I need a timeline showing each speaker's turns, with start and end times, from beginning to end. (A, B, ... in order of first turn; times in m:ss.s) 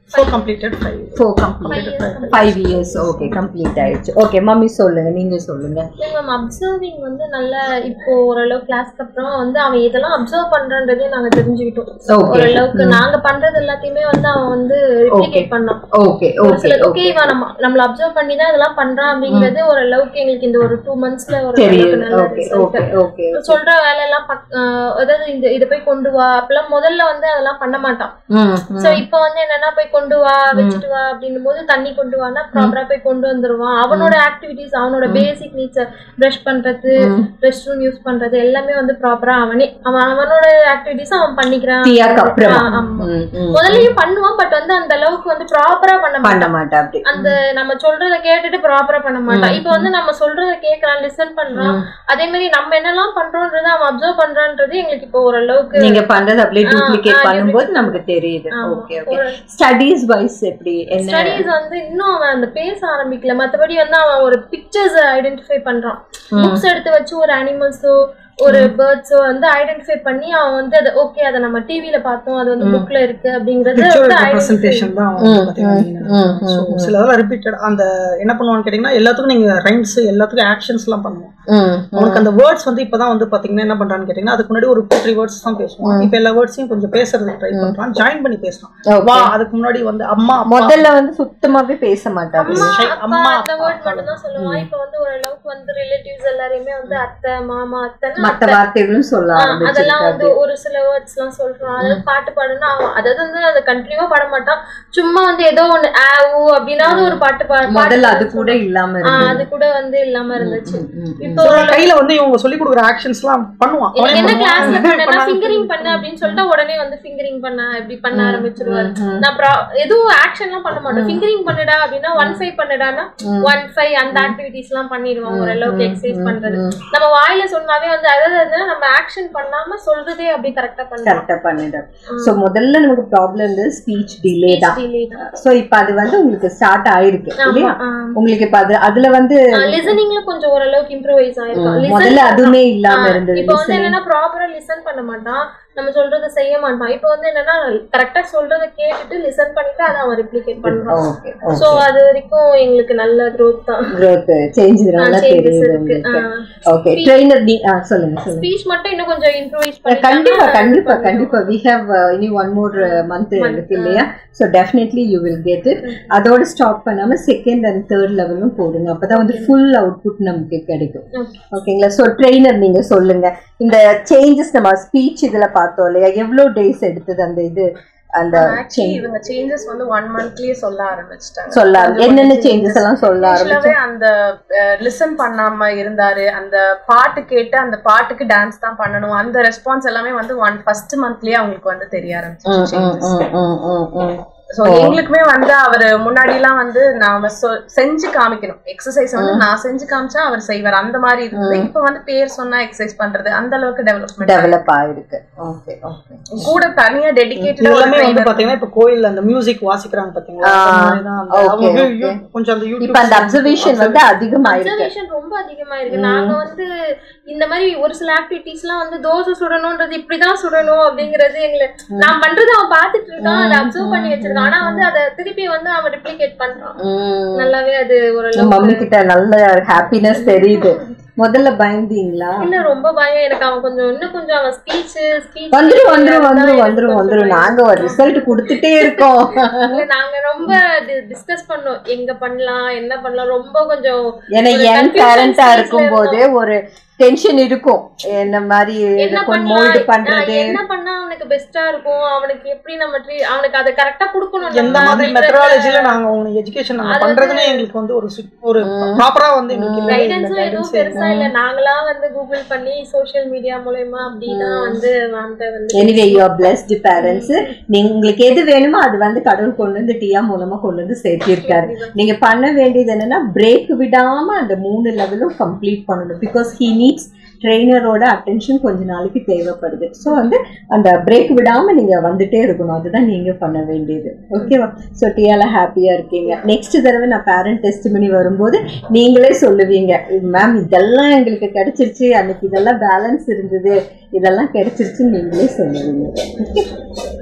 0:00.1-0:00.5 A
0:00.1-0:03.3 B
0:01.2-0:05.9 C
0:01.8-0:03.0 A
0:06.0-0:15.8 A
0:12.1-0:13.0 C
0:15.1-0:17.4 C
0:16.4-0:28.1 A
0:19.3-0:19.5 C
0:21.5-0:23.6 C
0:28.3-0:29.0 C
0:28.7-0:46.5 A
0:30.5-0:30.8 C
0:33.9-0:34.2 C
0:35.0-0:35.3 C
0:37.0-0:37.3 C
0:41.8-0:43.9 C
0:46.2-0:47.4 C
0:47.0-0:56.0 A
0:49.3-0:49.9 C
0:51.5-0:51.8 C
0:55.7-1:01.5 C
0:56.7-0:58.0 A
0:58.5-0:59.4 A
1:00.9-1:14.9 A
1:06.3-1:06.6 C
1:08.4-1:08.7 C
1:13.7-1:21.3 B
1:15.2-1:16.9 C
1:21.5-1:22.2 C
1:21.9-1:30.9 B
1:25.8-1:26.1 C
1:28.9-1:29.3 C
1:30.5-1:32.7 C
1:32.4-1:38.6 A
1:32.5-1:34.2 B
1:34.4-1:34.7 C
1:38.2-1:40.3 C
1:39.4-1:51.8 A
1:46.8-1:49.4 C
1:50.4-1:51.7 C
1:51.4-1:55.8 B
1:54.0-2:11.2 A
1:54.1-1:54.8 C
1:55.8-1:56.4 C
1:58.1-1:59.2 C
2:00.9-2:01.2 C
2:02.2-2:02.4 C
2:03.2-2:03.6 C
2:04.1-2:04.4 C
2:05.2-2:06.8 C
2:11.0-2:20.0 C
2:12.1-2:12.3 A
2:14.4-2:15.2 A
2:17.4-2:18.2 A
2:19.6-2:31.0 A
2:21.5-2:24.0 C
2:30.6-2:31.9 C
2:31.5-2:33.9 A
2:33.9-2:38.5 C
2:35.0-2:37.2 A
2:38.3-2:41.5 A
2:39.8-2:59.0 C
2:42.8-2:44.1 A
2:45.8-2:46.1 A
2:49.1-2:49.5 A
2:51.2-2:51.4 A
2:58.3-3:13.2 D
3:01.5-3:03.8 C
3:12.4-3:15.0 C
3:14.6-3:24.6 D
3:19.2-3:19.4 C
3:21.3-3:21.7 C
3:24.2-3:26.5 C
3:26.3-3:28.5 D
3:27.6-3:34.2 B
3:30.4-3:32.2 C
3:32.8-3:34.9 C
3:34.4-3:36.7 A
3:35.9-3:36.4 C
3:37.3-3:46.8 A
3:43.2-3:44.9 C
3:46.8-3:47.5 C
3:47.4-3:48.8 A
3:48.4-3:52.5 C
3:50.2-3:50.9 A
3:52.4-4:06.2 A
3:55.5-3:59.8 C
4:04.3-4:10.6 C
4:09.0-4:15.9 A
4:14.5-4:21.0 B
4:14.6-4:15.1 C
4:16.8-4:17.6 A
4:18.6-4:19.0 C
4:19.5-4:20.0 C
4:20.0-4:26.2 A
4:20.9-4:21.3 C
4:24.3-4:24.8 C
4:25.7-4:56.6 C
4:27.0-4:27.6 A
4:31.4-4:31.9 A